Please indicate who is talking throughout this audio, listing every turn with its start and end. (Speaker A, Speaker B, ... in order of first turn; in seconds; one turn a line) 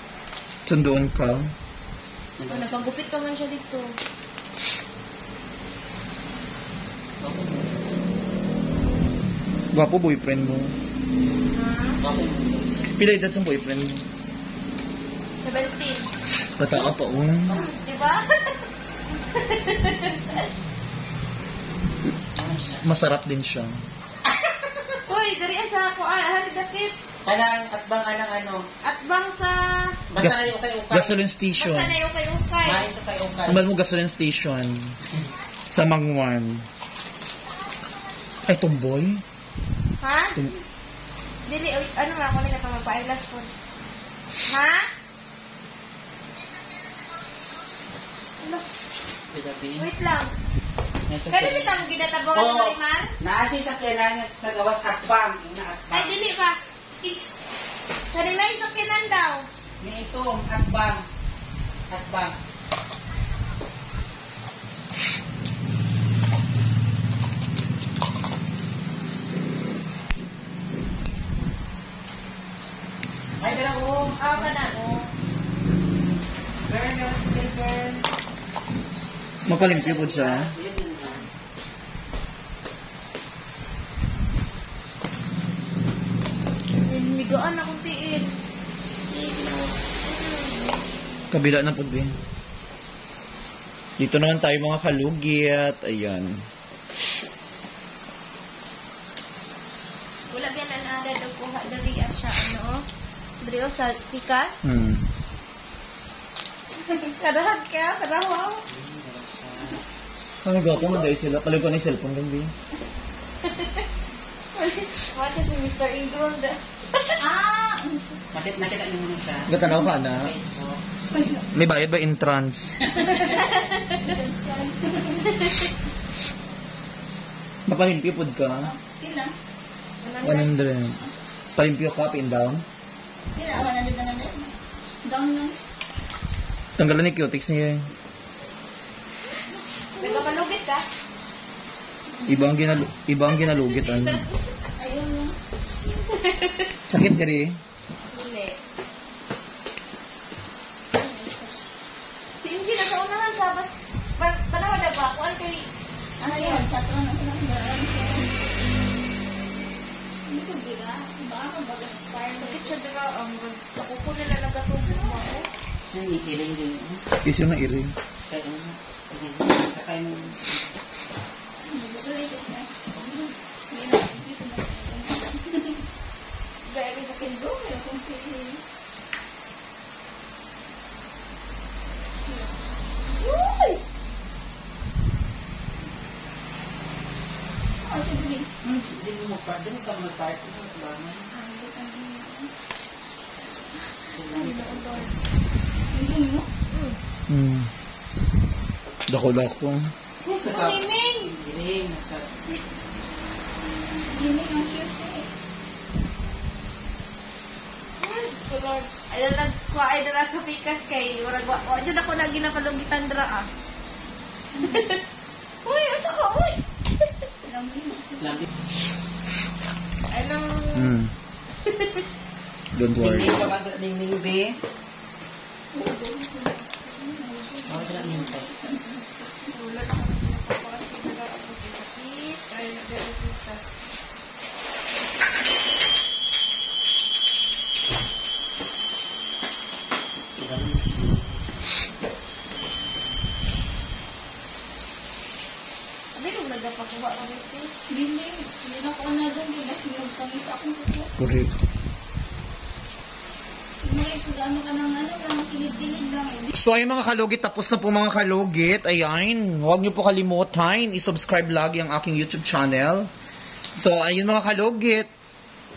Speaker A: 0.7-1.5
Speaker B: 2.4-2.9
Speaker C: 2.5-3.9
Speaker B: 7.2-8.0
Speaker A: 9.7-10.8
Speaker C: 11.5-12.0
Speaker B: 12.0-12.9
Speaker A: 12.9-14.1
Speaker C: 15.4-16.1
Speaker A: 16.6-17.6
Speaker C: 17.5-18.6
Speaker C: 19.3-20.5
Speaker B: 22.4-22.8
Speaker A: 22.8-23.8
Speaker C: 25.1-26.9
Speaker B: 27.2-28.7
Speaker C: 28.8-30.0
Speaker B: 30.1-31.2
Speaker A: 30.2-31.9
Speaker C: 31.6-32.9
Speaker B: 32.6-33.6
Speaker A: 33.5-35.0
Speaker A: 35.7-36.6
Speaker A: 38.5-39.2
Speaker C: 40.0-40.5
Speaker C: 41.5-43.5
Speaker C: 44.5-44.9
Speaker C: 48.4-48.6
Speaker B: 49.3-49.9
Speaker C: 49.8-50.3
Speaker B: 51.1-51.8
Speaker C: 51.3-53.1
Speaker B: 52.3-56.1
Speaker C: 55.9-57.2
Speaker C: 58.1-59.5
Speaker B: 59.8-61.0
Speaker B: 61.9-62.4
Speaker B: 73.4-74.7
Speaker C: 74.2-75.1
Speaker B: 76.6-78.1
Speaker A: 79.4-80.5
Speaker B: 79.5-81.3
Speaker C: 86.8-88.3
Speaker C: 89.1-90.9
Speaker A: 91.3-92.2
Speaker A: 94.0-96.4
Speaker C: 100.3-102.8
Speaker C: 103.4-104.6
Speaker A: 104.6-105.1
Speaker C: 107.1-108.6
Speaker B: 108.7-109.8
Speaker A: 110.4-112.5
Speaker C: 114.5-117.2
Speaker D: 117.2-118.2
Speaker B: 118.3-120.8
Speaker A: 119.5-120.3
Speaker D: 121.1-121.4
Speaker A: 121.5-122.8
Speaker D: 123.2-125.5
Speaker C: 123.2-124.0
Speaker A: 127.7-128.7
Speaker D: 128.6-129.4
Speaker C: 130.0-130.5
Speaker A: 130.2-131.0
Speaker A: 131.6-132.6
Speaker D: 133.3-135.6
Speaker A: 136.8-137.9
Speaker D: 140.0-140.3
Speaker C: 140.0-140.9
Speaker A: 142.2-144.2
Speaker C: 143.4-144.1
Speaker D: 144.8-145.4
Speaker C: 146.1-146.7
Speaker A: 146.9-147.6
Speaker C: 148.1-148.6
Speaker D: 150.9-151.6
Speaker C: 152.4-155.7
Speaker D: 156.2-158.3
Speaker C: 156.2-156.7
Speaker D: 160.3-162.7
Speaker C: 162.4-165.5
Speaker B: 165.9-167.0
Speaker A: 167.2-167.9
Speaker B: 168.2-170.7
Speaker D: 171.6-175.9
Speaker C: 176.7-177.1
Speaker D: 176.8-178.6
Speaker D: 182.2-182.5
Speaker C: 183.2-183.8
Speaker D: 187.8-188.5
Speaker B: 188.6-191.3
Speaker D: 191.3-192.5
Speaker B: 194.1-195.0
Speaker C: 194.2-195.2
Speaker D: 195.9-196.5
Speaker C: 196.7-197.0
Speaker A: 197.3-197.7
Speaker A: 199.1-199.9
Speaker B: 200.2-202.3
Speaker C: 200.4-201.3
Speaker D: 204.1-205.3
Speaker C: 208.0-213.5
Speaker C: 214.6-215.0
Speaker C: 215.6-216.6
Speaker D: 217.4-218.5
Speaker C: 220.1-220.9
Speaker A: 220.7-221.1
Speaker C: 221.7-222.0
Speaker A: 222.7-223.5
Speaker B: 223.0-224.6
Speaker D: 225.7-229.5
Speaker B: 227.7-228.5
Speaker C: 229.5-233.6
Speaker B: 240.4-241.9
Speaker C: 246.1-247.7
Speaker D: 247.9-251.1
Speaker A: 251.2-251.5
Speaker D: 253.8-256.5
Speaker A: 256.5-263.1
Speaker A: 263.7-265.1